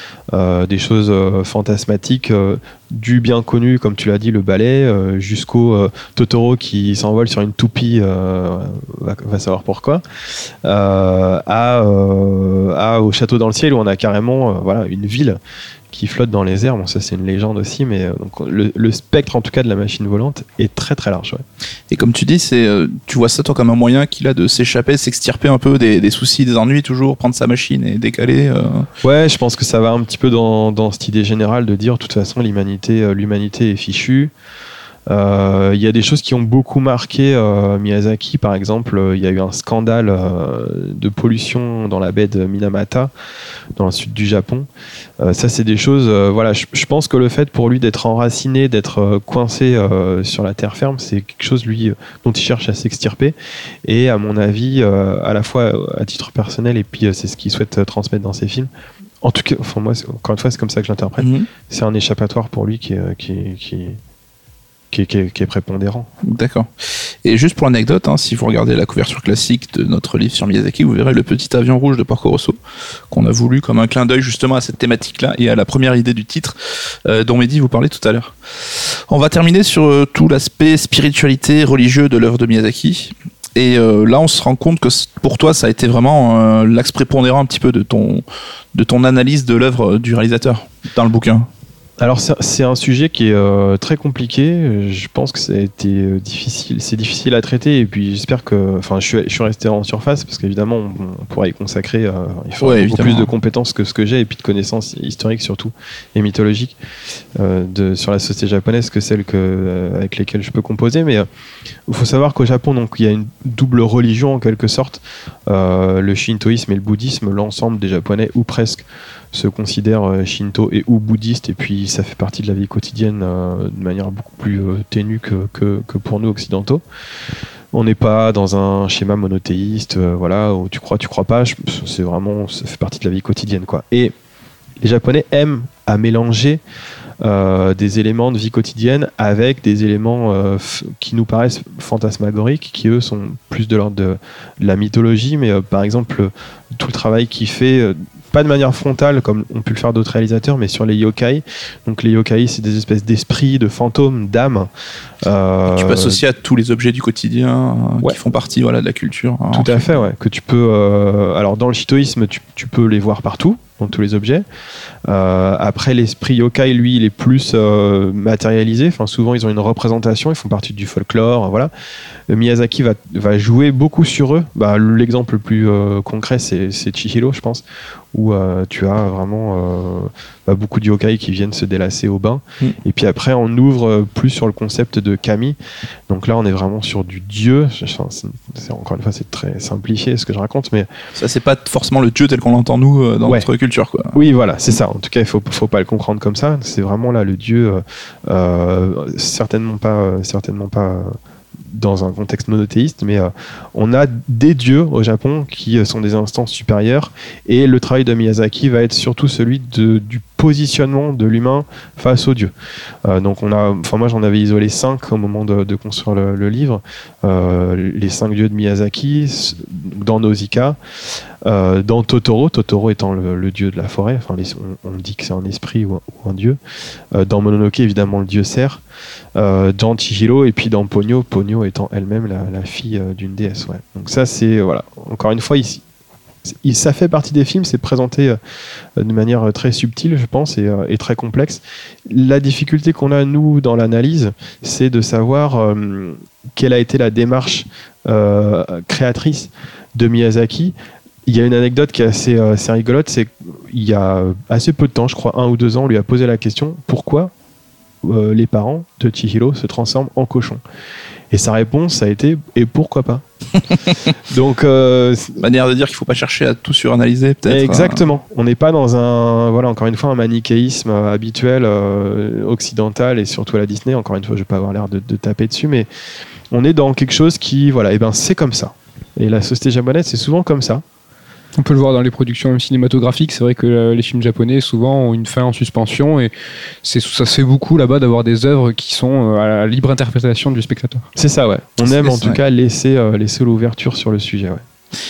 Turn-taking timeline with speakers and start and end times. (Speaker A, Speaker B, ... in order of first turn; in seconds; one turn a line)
Speaker A: 0.3-10.0
Speaker A: 10.6-15.4
Speaker A: 15.9-21.4
Speaker B: 21.9-28.9
Speaker A: 29.0-34.3
Speaker A: 35.1-43.1
Speaker A: 43.8-44.7
Speaker A: 45.2-58.7
Speaker A: 59.2-64.0
Speaker B: 61.2-61.5
Speaker A: 64.9-66.1
Speaker B: 66.2-72.5
Speaker B: 73.1-91.5
Speaker A: 92.0-106.8
Speaker B: 102.6-103.3
Speaker A: 107.3-111.3
Speaker A: 111.9-126.8
Speaker A: 127.7-134.1
Speaker A: 134.8-136.6
Speaker A: 137.2-154.7
Speaker A: 155.2-156.2
Speaker B: 155.7-160.0
Speaker A: 159.5-164.4
Speaker A: 165.1-171.7
Speaker A: 172.3-185.6
Speaker A: 186.1-190.9
Speaker B: 191.2-194.2
Speaker A: 194.1-212.5
Speaker A: 213.0-220.8
Speaker A: 221.4-226.6
Speaker A: 227.1-228.8
Speaker A: 229.3-235.8
Speaker A: 236.4-238.4
Speaker A: 239.0-250.7
Speaker A: 251.2-257.3
Speaker A: 258.0-260.6
Speaker A: 261.3-263.2
Speaker A: 264.2-265.4
Speaker B: 265.4-268.1
Speaker A: 267.5-275.9
Speaker A: 276.5-280.8
Speaker C: 281.6-286.3
Speaker C: 286.8-291.1
Speaker A: 291.1-294.6
Speaker B: 291.8-292.4